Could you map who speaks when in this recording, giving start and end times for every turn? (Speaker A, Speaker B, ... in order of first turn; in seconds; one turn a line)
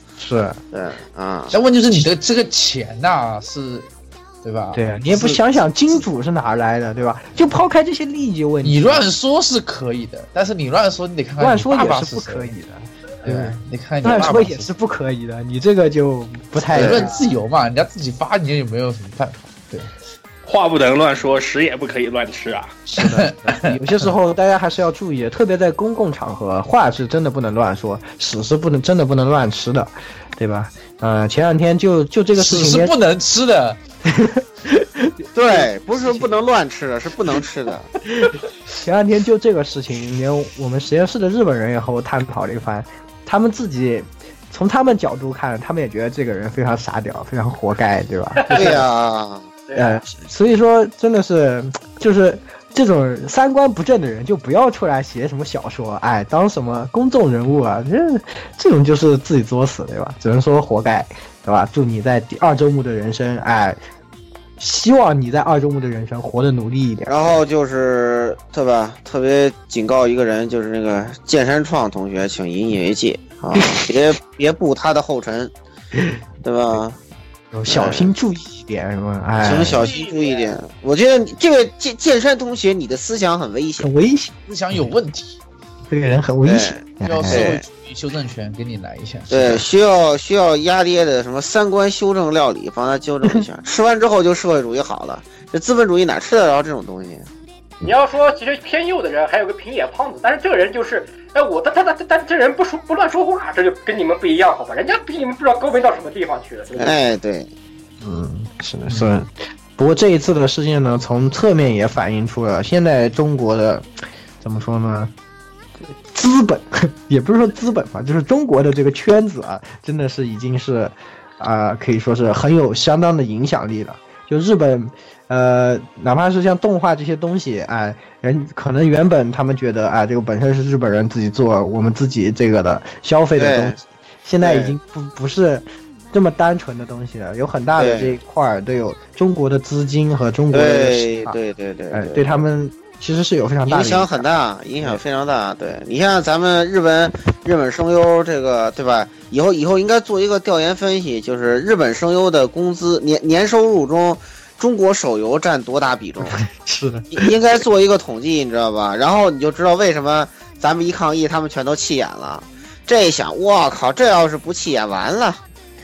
Speaker A: 0.2-0.6
Speaker B: 0.7-1.6
Speaker C: 1.5-3.9
Speaker C: 4.4-5.4
Speaker A: 4.7-9.1
Speaker C: 8.6-12.5
Speaker A: 11.4-17.1
Speaker C: 13.2-14.7
Speaker C: 16.7-19.9
Speaker B: 16.7-17.1
Speaker D: 20.4-22.8
Speaker A: 22.9-33.0
Speaker C: 23.0-23.8
Speaker C: 32.4-33.8
Speaker A: 34.1-36.3
Speaker B: 35.4-37.9
Speaker A: 38.2-48.9
Speaker E: 48.4-48.6
Speaker B: 48.5-49.5
Speaker E: 49.7-50.0
Speaker A: 49.8-63.8
Speaker A: 64.6-67.4
Speaker B: 67.1-75.5
Speaker A: 73.5-74.0
Speaker B: 76.4-77.0
Speaker A: 77.5-79.9
Speaker B: 77.7-78.1
Speaker B: 79.4-83.9
Speaker E: 79.8-80.6
Speaker A: 83.8-84.8
Speaker C: 84.5-85.4
Speaker A: 85.9-87.6
Speaker B: 86.4-87.6
Speaker C: 87.0-89.7
Speaker B: 89.3-97.3
Speaker E: 97.8-107.0
Speaker B: 106.8-107.5
Speaker A: 108.0-113.9
Speaker C: 108.9-109.2
Speaker A: 114.4-115.1
Speaker A: 115.9-141.4
Speaker B: 133.4-133.8
Speaker B: 134.4-134.7
Speaker B: 137.8-138.1
Speaker B: 140.5-142.3
Speaker A: 141.9-144.2
Speaker B: 143.7-156.4
Speaker A: 156.2-157.3
Speaker B: 157.1-165.4